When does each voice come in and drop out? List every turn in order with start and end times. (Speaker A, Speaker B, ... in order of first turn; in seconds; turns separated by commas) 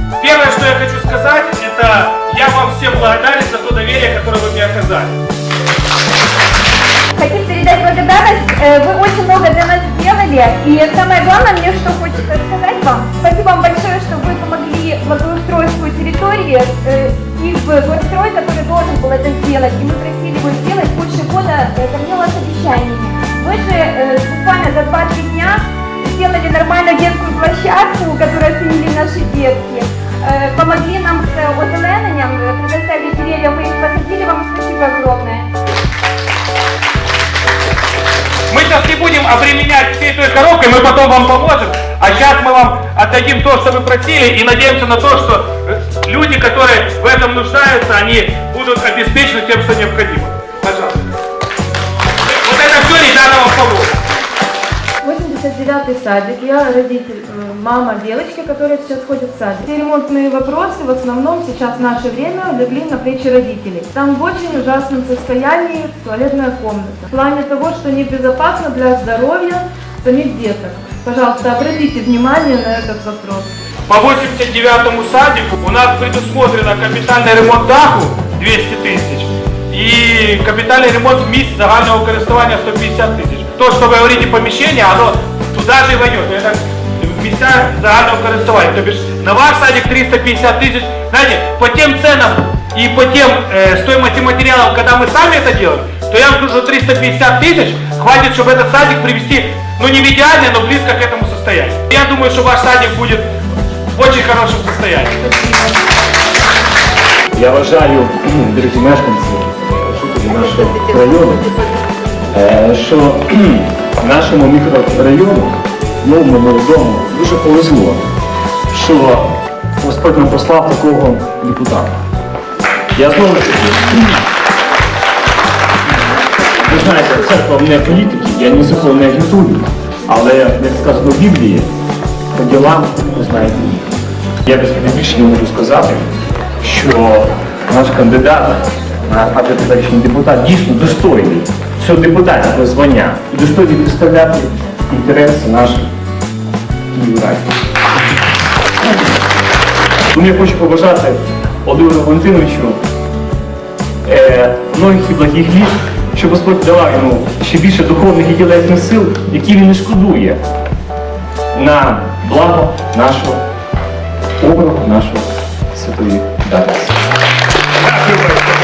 Speaker A: 0.2-5.1, Speaker B: 7.2-35.5, Speaker A: 38.5-51.1, Speaker A: 52.3-53.9, Speaker C: 55.0-73.5, Speaker A: 73.9-103.3, Speaker A: 103.9-105.5, Speaker D: 107.3-111.5, Speaker D: 112.3-118.0, Speaker D: 118.7-122.0, Speaker D: 123.0-124.2, Speaker D: 126.6-131.7, Speaker D: 132.3-133.9, Speaker D: 134.4-136.1, Speaker D: 136.6-145.9, Speaker D: 146.9-147.5, Speaker D: 150.1-152.8, Speaker D: 154.0-160.4, Speaker D: 161.5-163.4, Speaker D: 164.4-167.0, Speaker A: 167.8-168.4